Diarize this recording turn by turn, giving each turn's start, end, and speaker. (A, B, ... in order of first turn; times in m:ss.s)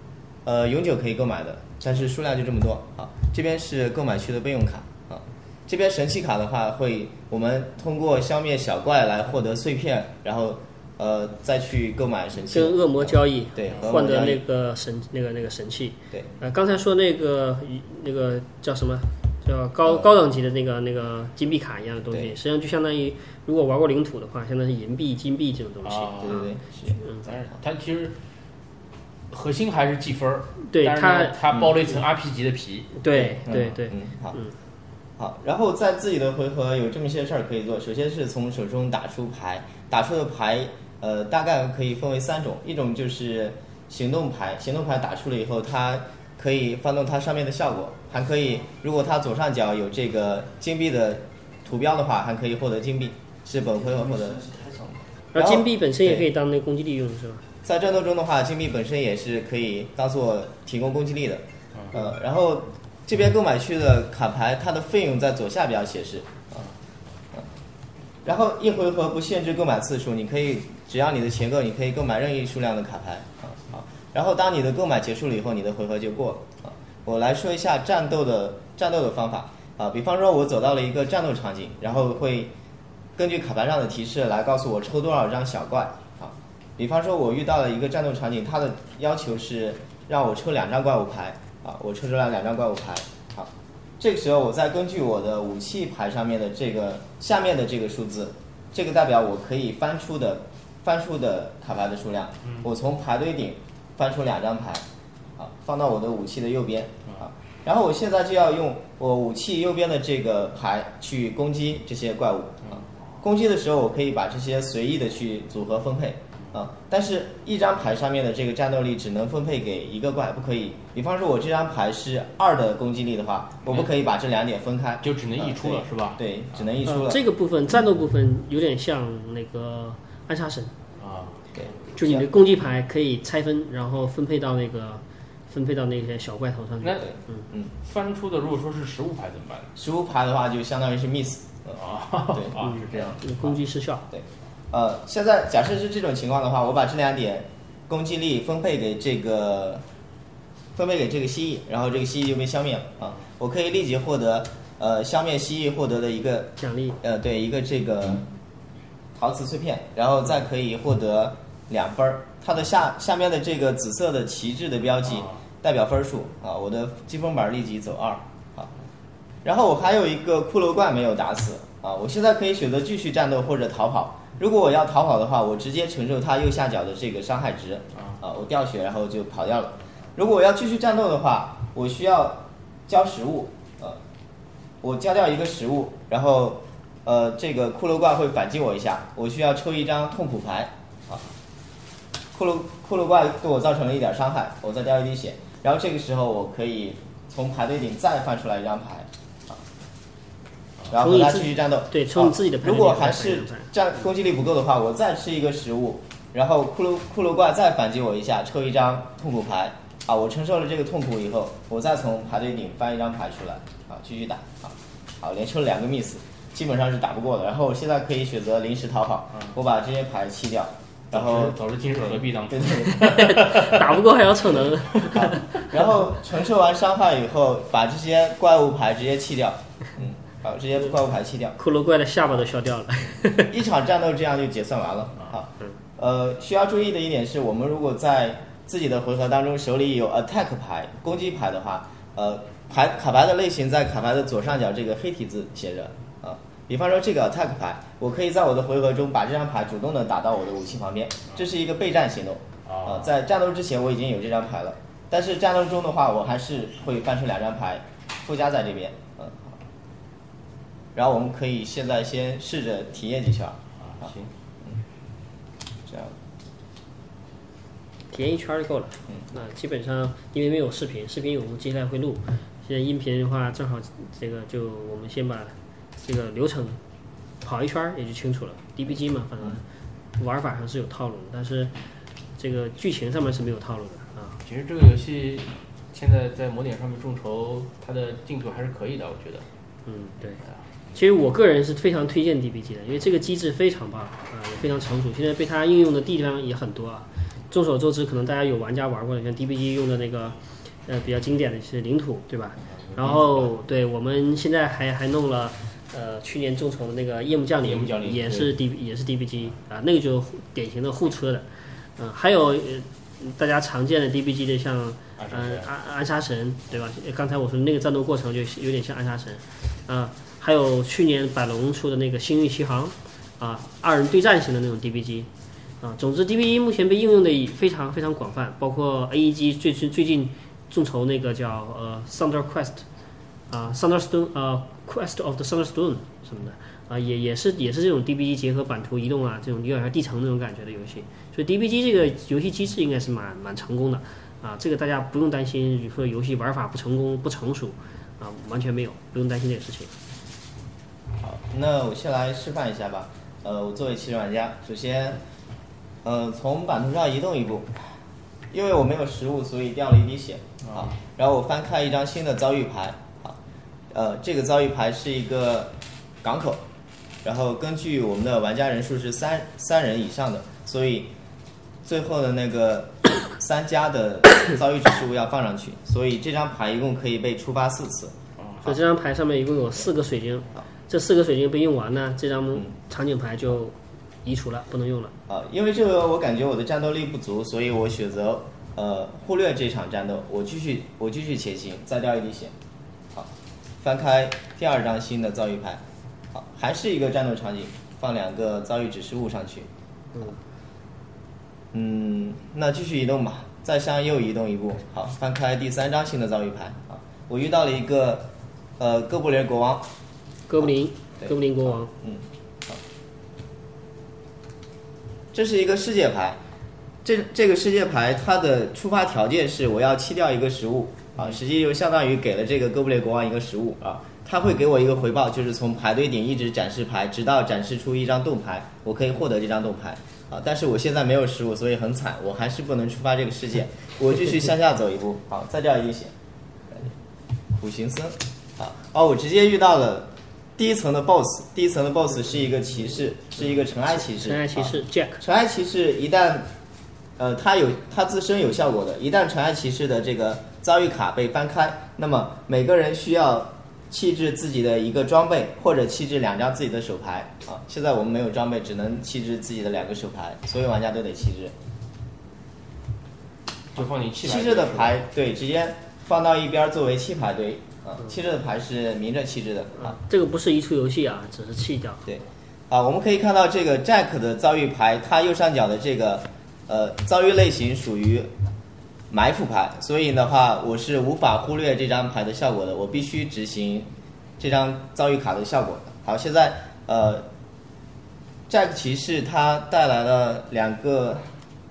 0:00.4-0:14.4 A
0:12.5-0:26.5 B
0:19.9-0:20.1 A
0:25.8-0:26.5 C
0:26.2-0:27.0 A
0:27.2-0:28.2 C
0:29.3-0:32.9 C
0:30.6-0:31.4 B
0:33.0-0:34.5 B
0:33.1-0:34.4 A
0:35.2-0:56.3 A
0:55.3-0:57.4 B
0:57.6-1:06.6 A
1:01.7-1:02.0 C
1:08.2-1:22.5 A
1:23.2-1:44.8 A
1:45.4-2:07.2 A
2:05.0-2:06.7 C
2:06.8-2:10.7 B
2:11.0-2:11.5 C
2:11.5-2:12.2 A
2:12.0-2:17.4 B
2:16.8-2:17.1 C
2:17.0-2:17.7 A
2:17.8-2:19.7 C
2:19.8-2:21.8 A
2:21.7-2:23.3 C
2:22.3-2:22.6 A
2:22.6-2:24.0 B
2:24.1-2:29.8 A
2:30.8-2:38.3 A
2:36.6-2:37.0 B
2:39.1-2:48.7 A
2:49.4-3:04.0 A
3:04.8-3:11.3 A
3:12.3-3:19.6 A
3:20.9-3:43.4 A
3:20.9-3:23.7 B
3:41.1-3:43.9 C
3:42.9-3:45.8 B
3:45.0-3:45.2 C
3:45.0-3:51.6 A
3:51.6-3:53.5 B
3:53.5-4:19.6 A
4:12.6-4:13.1 C
4:20.9-4:24.1 A
4:23.8-4:24.3 C
4:25.8-4:26.1 A
4:28.1-4:36.8 B
4:37.4-4:39.6 B
4:40.2-4:41.7 B
4:42.4-4:44.4 B
4:44.4-4:49.4 C
4:49.8-4:50.4 B
4:50.9-5:11.4 B
5:02.9-5:03.5 C
5:07.6-5:08.6 C
5:12.0-5:25.3 B
5:15.2-5:15.7 C
5:25.8-5:32.8 B
5:33.5-5:49.9 B
5:51.2-5:55.2 A
5:56.0-5:57.8 A
5:58.5-6:03.4 A
6:00.6-6:00.9 C
6:03.9-6:06.6 A
6:07.2-6:11.1 A
6:11.8-6:18.1 A
6:18.4-6:18.7 C
6:18.6-6:25.1 B
6:25.3-6:32.5 A
6:33.1-6:35.8 A
6:36.3-6:39.7 A
6:41.7-6:49.9 A
6:50.5-6:51.9 B
6:51.8-6:52.8 A
6:55.3-6:56.4 A
6:57.0-7:16.1 A
7:17.5-7:26.5 A
7:24.1-7:25.2 B
7:27.2-7:41.5 A
7:43.7-7:45.0 C
7:44.2-7:50.0 A
7:49.8-7:52.0 B
7:52.1-7:58.3 A
7:59.1-8:07.3 A
8:08.5-8:11.3 A